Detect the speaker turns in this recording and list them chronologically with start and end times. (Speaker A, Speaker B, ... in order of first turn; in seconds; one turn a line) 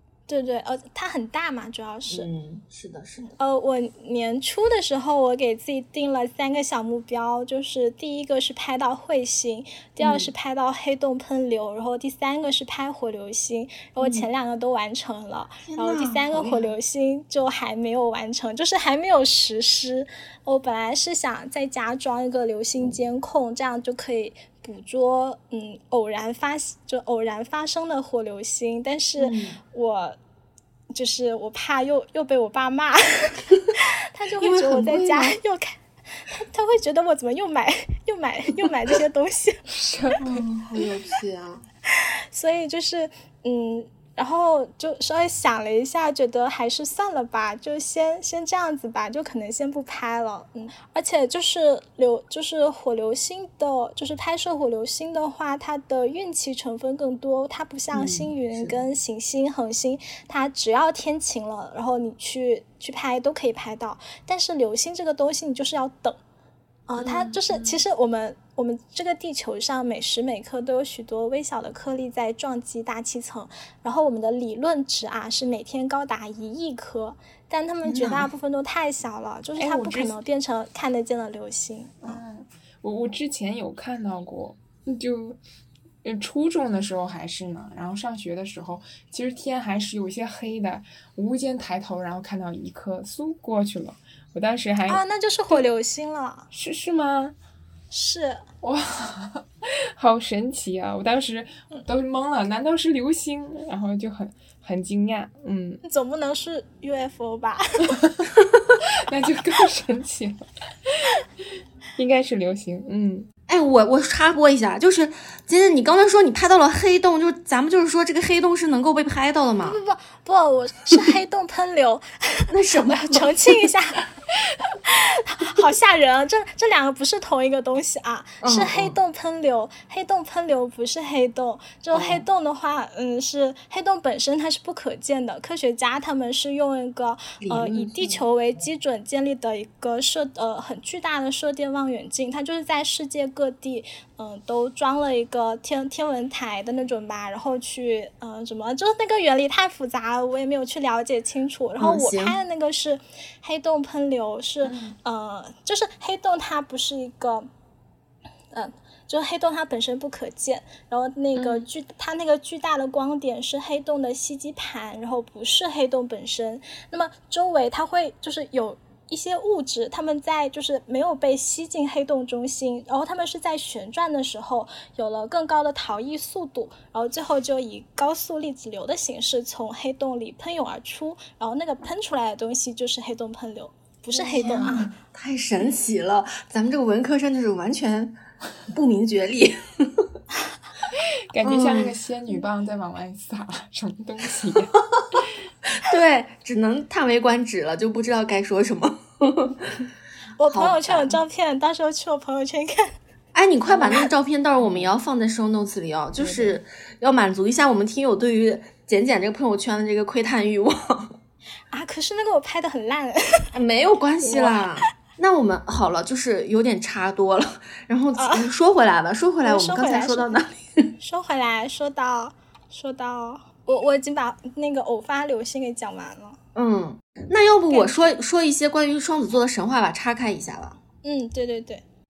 Speaker A: 0.3-2.3
Speaker B: 2.1-3.3
Speaker A: 3.4-30.2
Speaker B: 10.0-10.3
Speaker B: 14.0-14.3
Speaker B: 15.6-16.7
Speaker B: 29.2-29.6
Speaker A: 30.9-39.6
Speaker B: 34.4-35.4
Speaker C: 39.8-40.2
Speaker B: 40.2-41.6
Speaker A: 42.0-66.2
Speaker B: 57.9-58.8
Speaker A: 66.9-82.2
Speaker B: 77.8-78.3
Speaker C: 79.6-80.2
Speaker C: 82.0-85.4
Speaker C: 86.0-95.0
Speaker A: 94.9-96.5
Speaker C: 96.5-97.3
Speaker A: 97.9-98.4
Speaker C: 98.6-105.8
Speaker A: 105.8-108.0
Speaker C: 109.0-111.1
Speaker C: 112.0-113.3
Speaker B: 113.5-119.8
Speaker A: 119.6-124.0
Speaker B: 122.5-123.5
Speaker A: 124.8-157.5
Speaker B: 128.4-129.0
Speaker B: 131.9-132.2
Speaker B: 137.4-138.2
Speaker B: 151.8-152.4
Speaker C: 154.7-155.0
Speaker A: 158.5-184.9
Speaker C: 184.2-184.9
Speaker B: 184.3-188.2
Speaker B: 188.7-190.1
Speaker C: 191.3-194.8
Speaker B: 191.4-192.0
Speaker B: 195.7-199.9
Speaker A: 200.4-202.9
Speaker B: 200.5-201.2
Speaker B: 203.3-211.2
Speaker A: 203.7-204.1
Speaker C: 206.2-206.6
Speaker A: 211.7-213.5
Speaker B: 213.5-220.9
Speaker A: 214.2-214.7
Speaker A: 218.2-218.5
Speaker A: 219.4-220.3
Speaker A: 221.0-226.4
Speaker B: 226.6-230.8
Speaker A: 227.7-228.1
Speaker A: 231.0-231.8